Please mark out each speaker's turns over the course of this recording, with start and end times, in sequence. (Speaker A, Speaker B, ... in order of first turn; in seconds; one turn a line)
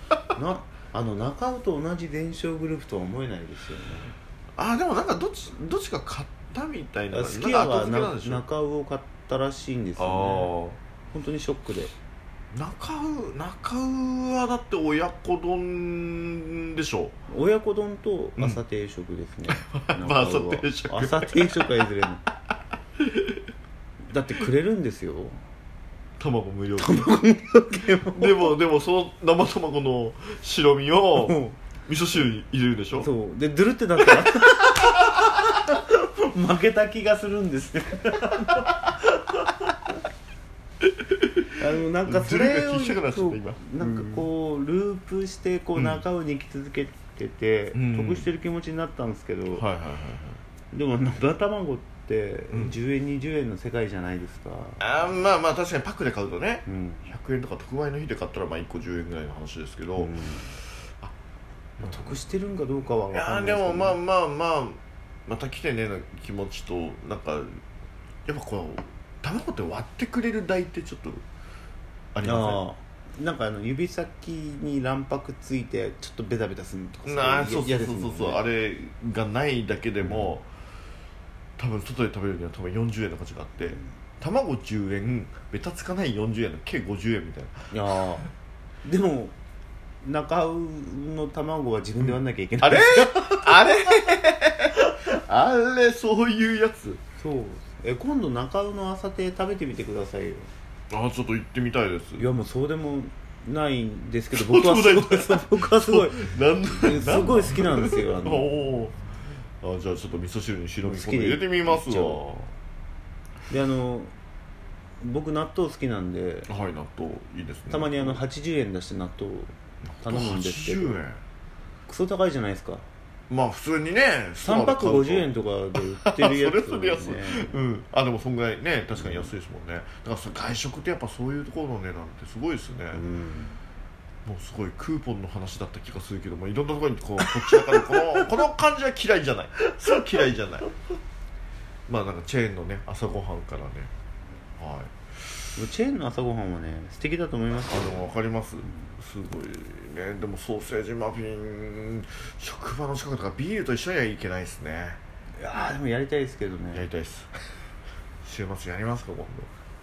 Speaker A: 0.3-4.1
Speaker B: 4.6-8.4
Speaker A: 7.1-10.5
Speaker B: 10.0-10.8
Speaker A: 11.1-11.9
Speaker B: 12.5-17.2
Speaker A: 17.3-22.2
Speaker B: 18.4-18.6
Speaker B: 19.6-21.7
Speaker B: 23.0-23.4
Speaker A: 24.1-25.4
Speaker B: 26.2-27.3
Speaker A: 26.8-28.6
Speaker B: 28.1-33.1
Speaker A: 31.2-31.6
Speaker A: 32.9-39.7
Speaker B: 34.0-35.2
Speaker B: 40.8-44.3
Speaker A: 41.6-49.6
Speaker B: 45.8-46.0
Speaker B: 47.7-48.3
Speaker B: 49.5-50.4
Speaker A: 50.7-54.8
Speaker B: 54.8-60.2
Speaker A: 56.7-57.0
Speaker A: 60.0-60.6
Speaker B: 61.8-62.2
Speaker A: 61.8-64.0
Speaker B: 63.1-67.6
Speaker B: 68.3-71.2
Speaker B: 72.1-72.6
Speaker A: 72.2-78.4
Speaker B: 77.0-80.5
Speaker A: 80.0-80.4
Speaker B: 81.6-88.3
Speaker A: 87.7-88.3
Speaker A: 88.8-89.4
Speaker A: 90.0-94.3
Speaker B: 92.0-97.0
Speaker A: 97.2-100.5
Speaker B: 100.9-102.3
Speaker A: 102.2-108.5
Speaker B: 104.3-109.0
Speaker B: 109.6-112.5
Speaker A: 110.8-112.2
Speaker A: 113.5-114.1
Speaker A: 115.0-116.5
Speaker B: 116.5-118.2
Speaker A: 117.7-121.0
Speaker B: 119.9-121.2
Speaker A: 121.9-122.8
Speaker B: 123.3-133.0
Speaker A: 124.4-127.6
Speaker A: 128.9-129.3
Speaker A: 132.9-133.6
Speaker B: 134.2-140.7
Speaker A: 137.2-138.4
Speaker B: 141.9-143.9
Speaker B: 144.6-145.3
Speaker A: 145.6-148.1
Speaker B: 147.7-155.0
Speaker A: 155.4-156.9
Speaker B: 156.7-157.3
Speaker B: 158.2-159.5